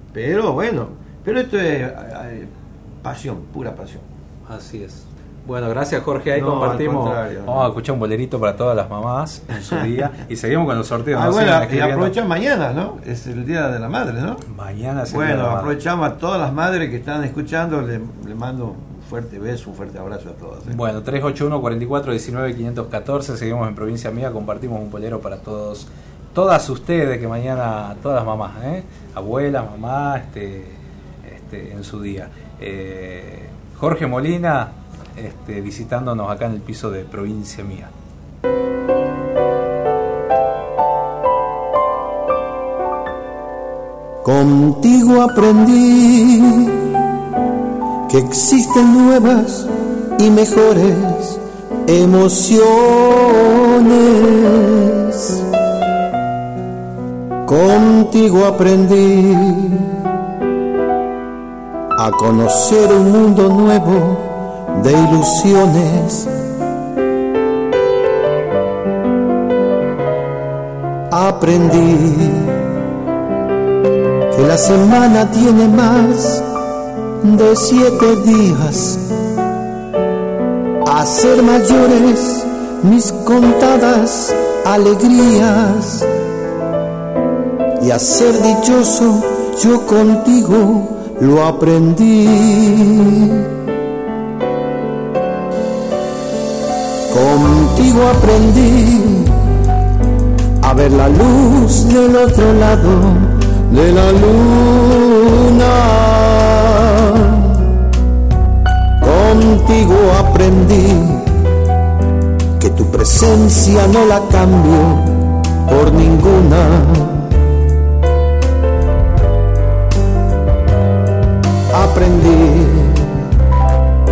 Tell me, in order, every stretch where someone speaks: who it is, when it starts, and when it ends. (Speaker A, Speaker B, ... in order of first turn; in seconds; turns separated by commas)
Speaker A: 0.1-2.5, Speaker A: 3.0-4.0, Speaker B: 4.5-12.2, Speaker A: 6.3-7.7, Speaker A: 11.1-14.4, Speaker B: 14.5-15.8, Speaker A: 15.1-20.8, Speaker B: 20.7-37.9, Speaker C: 44.2-46.8, Speaker C: 48.1-55.4, Speaker C: 57.5-59.8, Speaker C: 62.0-66.3, Speaker C: 71.1-72.5, Speaker C: 74.3-76.4, Speaker C: 77.2-79.0, Speaker C: 80.8-86.0, Speaker C: 87.8-93.4, Speaker C: 97.1-99.4, Speaker C: 100.6-107.5, Speaker C: 109.0-111.3, Speaker C: 112.6-115.1, Speaker C: 115.7-117.2, Speaker C: 121.7-123.1